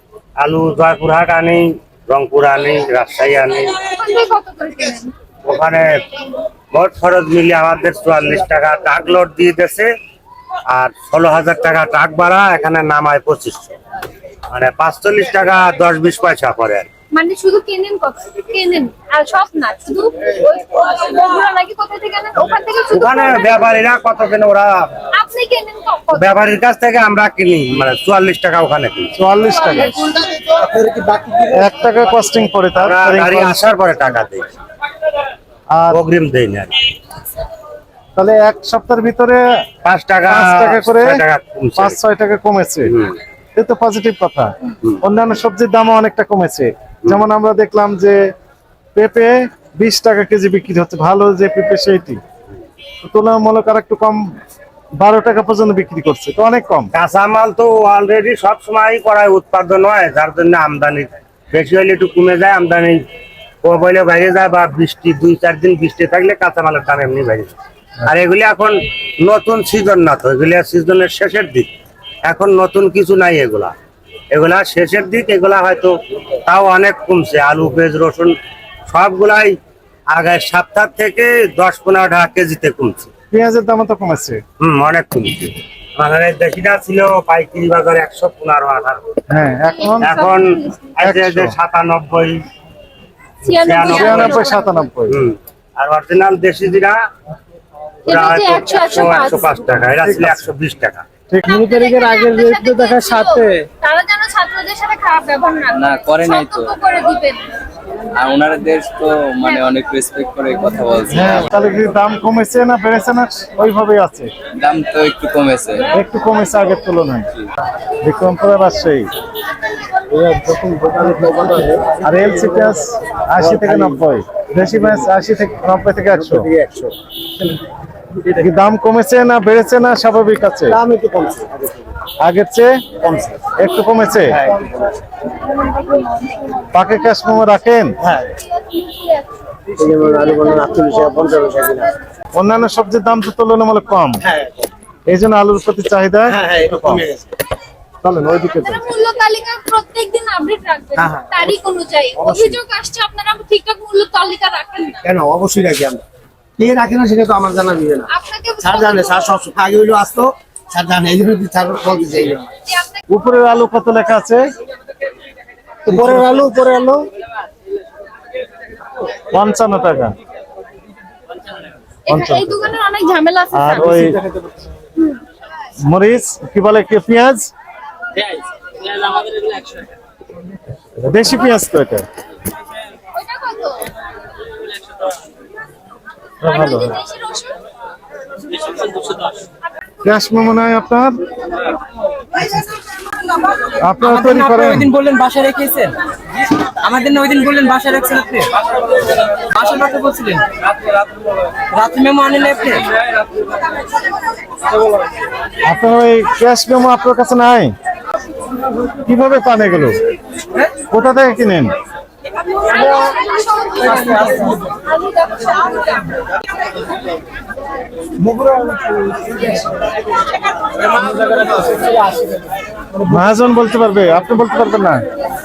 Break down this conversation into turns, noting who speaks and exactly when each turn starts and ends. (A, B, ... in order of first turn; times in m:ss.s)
0:00.4-0:03.8 A
0:03.8-0:05.1 B
0:05.4-0:06.0 A
0:06.7-0:09.9 A
0:10.7-0:13.8 A
0:14.5-0:16.9 A
0:17.1-0:23.5 B
0:22.9-0:24.9 A
0:25.1-0:26.4 B
0:26.2-0:29.1 A
0:29.2-0:29.9 C
0:29.5-0:30.2 B
0:30.3-0:32.0 D
0:31.5-0:33.6 C
0:32.8-0:34.5 A
0:35.7-0:36.0 C
0:35.9-0:36.8 A
0:38.2-0:39.6 C
0:39.8-0:42.0 A
0:40.3-0:41.2 C
0:41.8-0:43.0 C
0:42.9-0:43.2 A
0:43.6-0:48.2 C
0:49.0-0:52.2 C
0:53.0-0:54.3 C
0:55.0-0:56.9 C
0:56.9-1:03.0 A
1:03.6-1:11.7 A
1:12.3-1:13.7 A
1:14.3-1:18.4 A
1:18.9-1:19.6 A
1:20.1-1:23.1 A
1:23.3-1:24.4 C
1:24.6-1:29.0 A
1:29.3-1:30.2 C
1:29.6-1:30.9 B
1:30.0-1:32.4 A
1:31.0-1:31.6 C
1:33.4-1:34.8 B
1:33.5-1:34.5 A
1:33.9-1:35.2 C
1:35.1-1:37.0 A
1:38.1-1:39.7 B
1:38.1-1:41.1 A
1:40.0-1:40.5 C
1:41.3-1:43.7 C
1:41.4-1:47.4 B
1:45.7-1:46.8 E
1:48.1-1:51.6 E
1:49.4-1:49.8 B
1:51.1-1:54.3 C
1:54.6-1:55.9 E
1:55.9-1:57.3 C
1:58.0-1:59.1 C
2:00.1-2:02.7 D
2:02.0-2:06.5 C
2:03.4-2:04.0 D
2:06.1-2:06.9 D
2:08.4-2:10.8 C
2:10.7-2:11.9 D
2:12.2-2:14.4 C
2:13.1-2:13.4 D
2:14.2-2:15.0 D
2:15.7-2:16.5 B
2:16.7-2:18.0 C
2:18.0-2:18.4 D
2:18.7-2:19.2 B
2:19.7-2:21.9 D
2:20.2-2:20.6 B
2:22.4-2:24.2 C
2:24.2-2:24.7 D
2:25.1-2:27.0 C
2:26.3-2:27.3 D
2:28.0-2:28.8 C
2:28.5-2:35.0 B
2:31.0-2:31.5 D
2:32.2-2:32.6 D
2:35.0-2:36.0 D
2:36.6-2:38.1 D
2:38.1-2:39.4 B
2:38.6-2:42.5 D
2:42.7-2:43.0 B
2:43.1-2:44.5 C
2:45.8-2:47.1 C
2:45.9-2:46.4 D
2:49.3-2:50.2 C
2:52.1-2:54.1 B
2:52.1-2:52.7 C
2:53.5-2:54.2 C
2:55.9-2:57.5 C
3:01.0-3:02.1 C
3:03.2-3:03.8 B
3:06.4-3:07.0 C
3:06.4-3:07.6 B
3:08.8-3:09.3 F
3:10.0-3:11.1 C
3:13.8-3:14.9 C
3:14.0-3:15.9 F
3:15.7-3:15.9 E
3:16.8-3:18.5 F
3:16.9-3:17.4 E
3:19.5-3:20.5 F
3:21.7-3:22.9 F
3:25.7-3:27.7 C
3:29.0-3:30.0 C
3:30.9-3:31.8 C
3:32.6-3:35.9 B
3:38.3-3:39.8 D
3:43.0-3:45.1 C